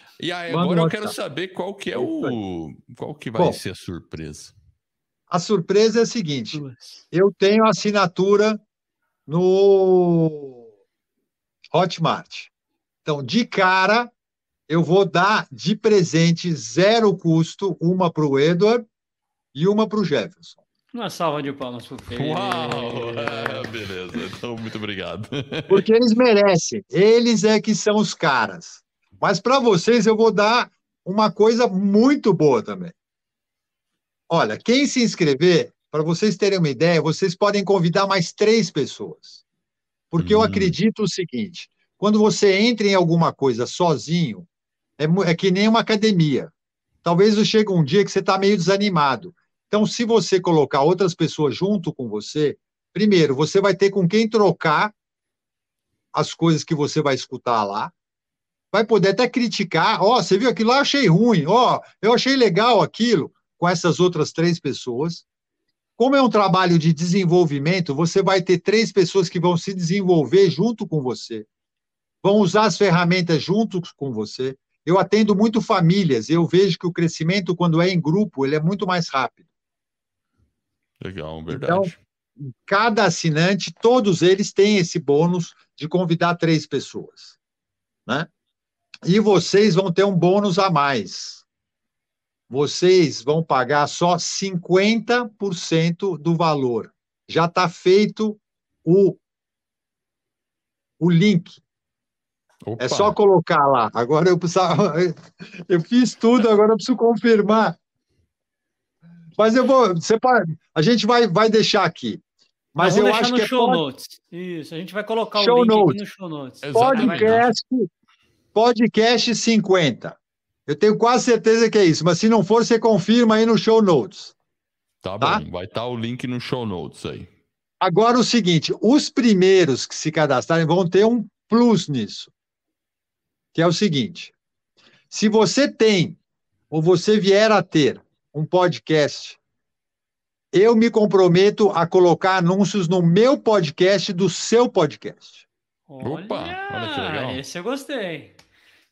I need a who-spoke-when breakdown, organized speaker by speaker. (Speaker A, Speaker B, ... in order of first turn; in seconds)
Speaker A: 0.2-4.5, 22.1-25.9, 40.2-40.7, 81.0-82.0, 102.7-103.2, 116.7-117.5, 125.0-127.3, 146.0-147.4
Speaker B: 0.5-1.1, 1.9-2.4, 5.3-8.6, 9.3-10.6, 11.7-12.5, 13.0-14.1, 14.7-18.8, 19.5-20.6, 25.7-32.9, 34.3-39.4, 40.1-44.5, 45.0-46.5, 47.0-54.9, 56.1-57.9, 58.7-65.2, 66.0-71.5, 72.2-79.4, 81.5-87.3, 89.0-91.4, 92.5-99.2, 101.0-101.6, 102.8-107.8, 109.4-112.2, 112.7-113.8, 115.3-116.0, 116.7-117.9, 118.5-120.2, 120.7-124.3, 127.8-132.3, 133.5-134.3, 135.1-136.2, 136.7-139.4, 140.5-145.4
Speaker C: 6.5-7.0, 20.9-23.7, 112.8-117.3, 145.9-148.4